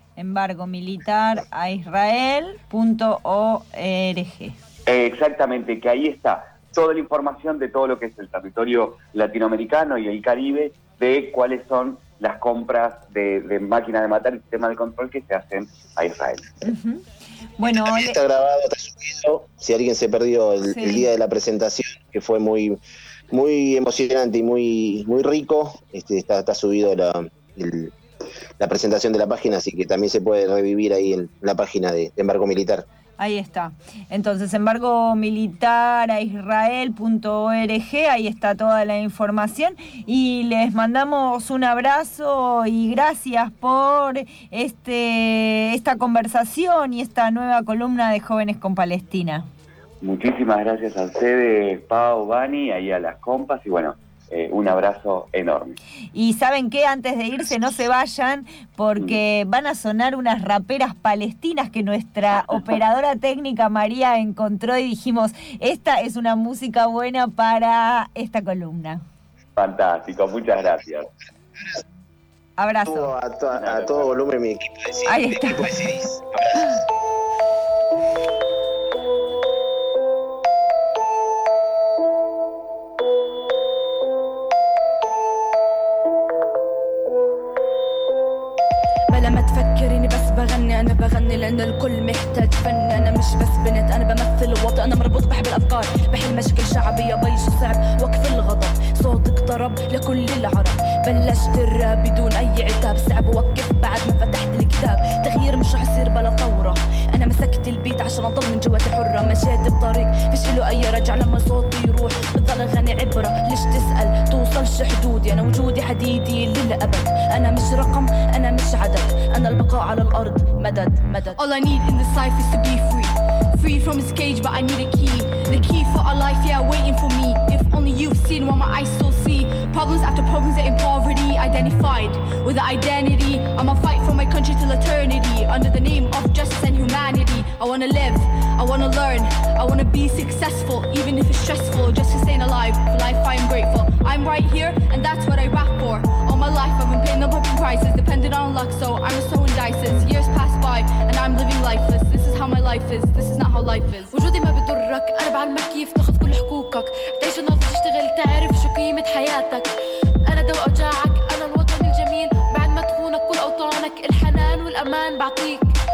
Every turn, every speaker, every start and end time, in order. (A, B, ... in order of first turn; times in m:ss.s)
0:00.2-0:04.6 A
0:04.9-0:16.4 B
0:16.6-0:18.2 A
0:17.6-0:22.8 C
0:20.7-0:21.1 A
0:23.3-0:27.9 C
0:28.6-0:32.8 C
0:33.2-0:49.5 A
0:50.0-0:55.8 B
0:56.1-1:09.0 A
1:09.6-1:11.1 B
1:12.6-1:13.1 A
1:12.8-1:16.7 C
1:13.5-1:14.1 B
1:15.1-1:15.9 A
1:29.1-2:01.4 D
2:01.3-2:34.1 E
2:34.1-2:39.7 F
2:40.2-2:45.7 F